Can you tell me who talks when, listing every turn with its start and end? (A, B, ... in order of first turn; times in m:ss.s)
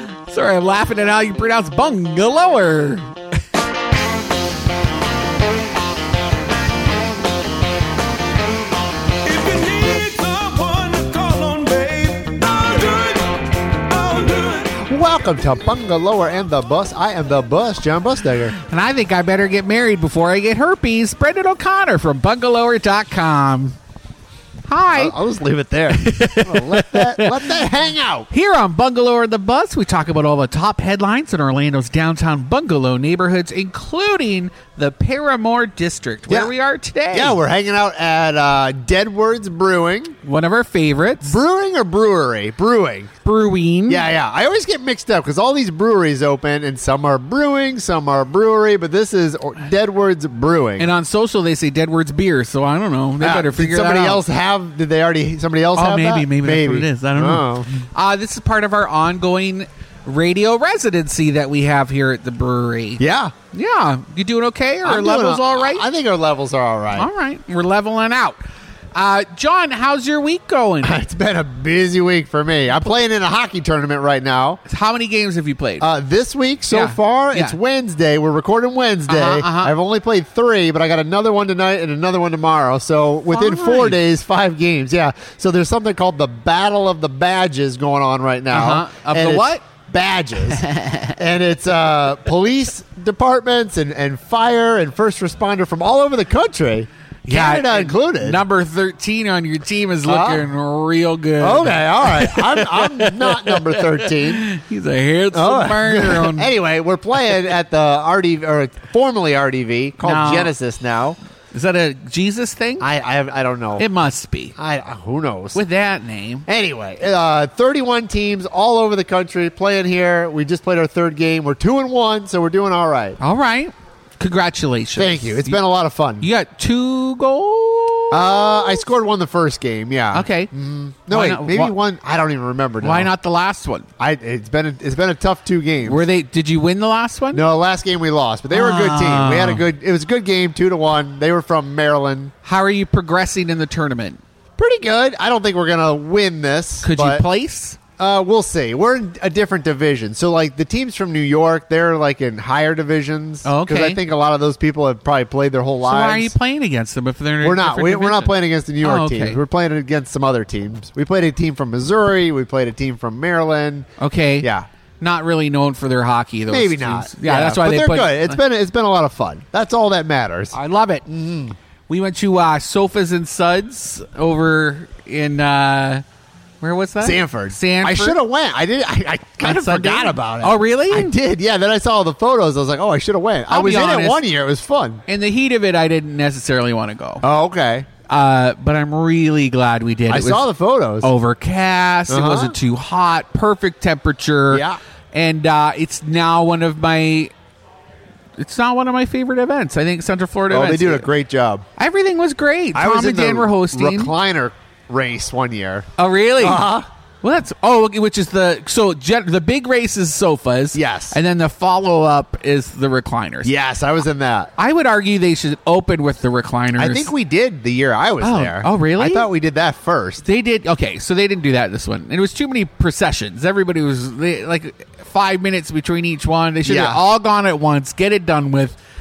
0:00.3-0:03.1 A
0:09.2-0:14.8 B
0:14.8-0:18.6 C
0:18.6-0:23.8 A
0:24.6-0:25.2 A
0:24.9-0:28.3 C
0:25.9-0:27.6 A
0:28.3-0:37.4 A
0:37.1-0:40.1 C
0:40.2-0:41.4 A
0:41.2-0:43.1 C
0:43.2-0:44.0 A
0:43.9-0:50.9 C
0:50.8-0:54.2 A
0:53.2-0:57.7 C
0:55.8-1:03.0 A
1:03.0-1:03.3 C
1:03.5-1:05.8 A
1:04.8-1:07.1 C
1:07.0-1:08.4 A
1:08.9-1:11.0 A
1:10.8-1:14.6 C
1:14.6-1:15.9 A
1:15.8-1:30.6 C
1:16.7-1:17.6 A
1:19.1-1:19.7 A
1:23.3-1:24.0 A
1:28.5-1:29.6 A
1:30.5-1:31.1 A
1:31.2-1:38.4 C
1:37.2-1:46.5 A
1:40.1-1:40.4 C
1:41.4-1:44.5 C
1:45.3-1:51.2 C
1:50.0-1:50.5 A
1:51.5-1:52.9 A
1:52.8-1:53.8 C
1:53.8-1:54.5 A
1:54.6-1:55.6 C
1:55.5-1:56.4 A
1:56.5-2:03.2 C
2:03.2-2:05.6 A
2:05.0-2:06.3 C
2:06.2-2:08.8 A
2:08.1-2:13.1 C
2:10.1-2:10.5 A
2:11.1-2:11.7 A
2:12.8-2:13.9 A
2:14.0-2:16.0 C
2:15.8-2:17.4 A
2:17.3-2:22.3 C
2:18.5-2:19.6 A
2:22.4-2:24.2 A
2:24.6-2:27.2 C
2:26.8-2:27.8 A
2:28.0-2:36.3 C
2:33.4-2:34.0 A
2:35.8-2:39.4 A
2:37.4-2:43.9 C
2:44.0-2:44.5 A
2:44.4-2:44.7 C
2:45.0-2:48.4 A
2:46.5-2:50.6 C
2:50.5-2:51.0 A
2:51.1-2:51.6 C
2:51.9-2:56.0 A
2:56.6-2:58.2 A
2:57.0-3:05.0 C
2:59.4-3:01.2 A
3:03.5-3:04.2 A
3:05.1-3:07.2 A
3:07.2-3:07.9 C
3:08.1-3:10.5 A
3:10.1-3:11.1 C
3:11.0-3:17.3 A
3:12.1-3:12.6 C
3:14.5-3:14.8 C
3:18.4-3:21.1 A
3:20.5-3:21.6 C
3:21.8-3:24.1 A
3:22.7-3:25.9 C
3:26.0-3:26.6 A
3:26.4-3:26.9 C
3:27.2-3:33.5 A
3:30.7-3:31.2 C
3:33.4-3:34.5 C
3:34.6-3:37.1 A
3:36.8-3:40.2 C
3:38.2-3:39.3 A
3:40.2-3:48.8 A
3:46.6-3:47.0 C